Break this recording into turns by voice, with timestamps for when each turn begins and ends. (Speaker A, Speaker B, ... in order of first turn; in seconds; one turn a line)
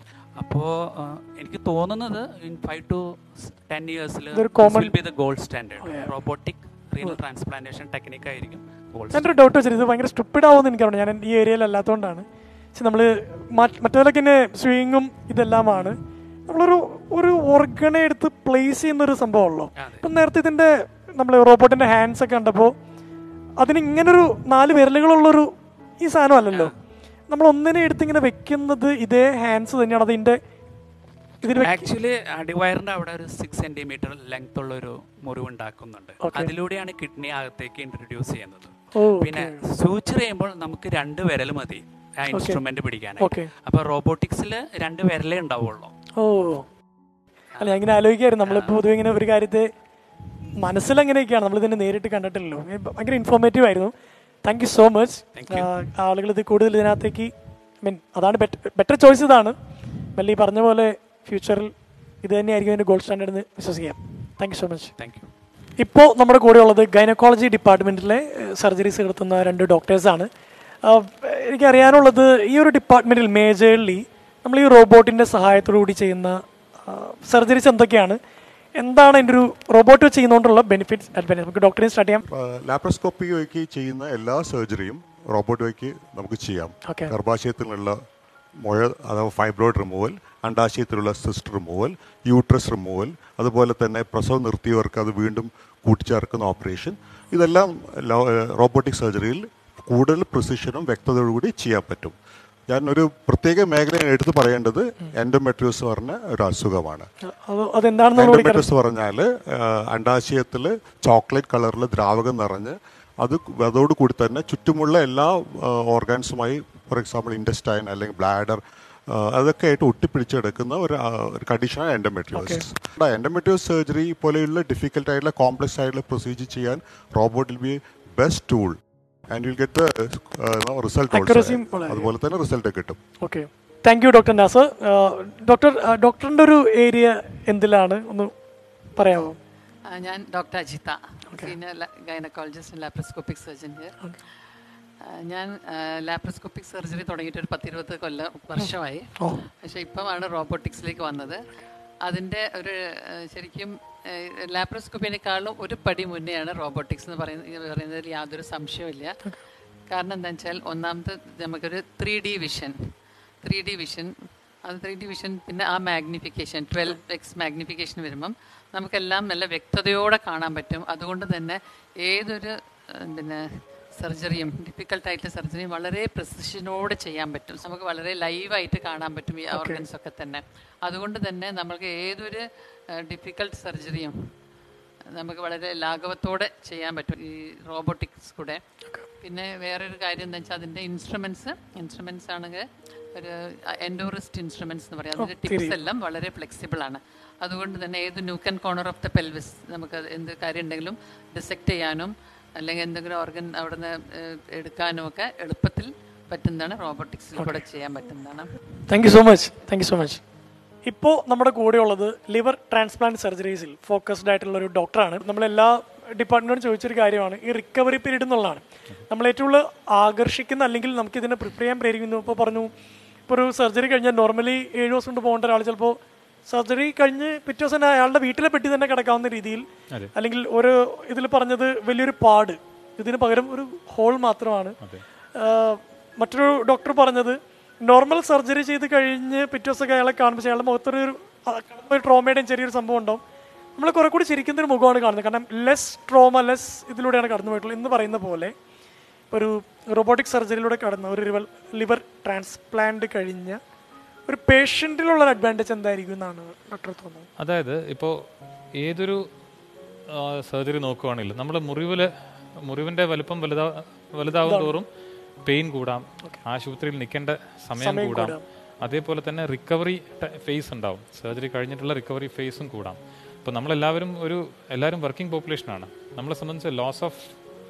Speaker A: 0.4-9.3
Speaker B: 4.3-4.9
Speaker B: 5.8-6.1
Speaker B: 9.1-22.7
Speaker A: 19.8-20.0
Speaker B: 23.6-26.7
Speaker B: 27.3-30.4
Speaker B: 31.4-31.9
Speaker A: 31.6-45.9
Speaker B: 36.2-36.5
Speaker B: 38.9-39.6
Speaker B: 42.3-42.6
Speaker B: 43.2-43.5
Speaker B: 46.1-46.7
Speaker B: 47.6-49.7
Speaker A: 48.4-48.8
Speaker B: 50.6-53.9
Speaker B: 54.4-57.3
Speaker A: 55.3-55.7
Speaker B: 57.8-59.5
Speaker B: 60.1-64.9
Speaker A: 65.0-65.3
Speaker B: 65.8-70.3
Speaker B: 70.8-78.2
Speaker B: 78.8-82.2
Speaker C: 82.3-88.0
Speaker B: 86.8-87.1
Speaker C: 88.6-102.1
Speaker C: 102.7-107.1
Speaker B: 107.2-108.7
Speaker C: 108.2-128.8
Speaker B: 122.3-122.6
Speaker C: 129.3-133.0
Speaker B: 131.1-132.1
Speaker B: 133.2-138.3
Speaker B: 138.9-139.4
Speaker D: 139.8-144.0
Speaker D: 145.0-151.4
Speaker B: 148.6-149.4
Speaker D: 152.0-159.2
Speaker D: 159.9-162.8
Speaker D: 163.4-173.4
Speaker D: 174.0-184.1
Speaker B: 179.5-179.8
Speaker D: 185.1-188.6
Speaker D: 189.2-208.5
Speaker B: 195.2-195.8
Speaker B: 207.3-207.6
Speaker B: 208.9-210.2
Speaker B: 210.8-222.7
Speaker B: 223.3-226.0
Speaker B: 226.5-234.8
Speaker B: 235.3-243.2
Speaker B: 243.8-248.5
Speaker B: 249.3-253.6
Speaker B: 254.3-257.3
Speaker E: 257.4-258.1
Speaker E: 258.8-259.2
Speaker E: 260.1-262.1
Speaker E: 262.6-264.9
Speaker B: 264.4-264.7
Speaker E: 265.4-277.3
Speaker B: 267.8-268.4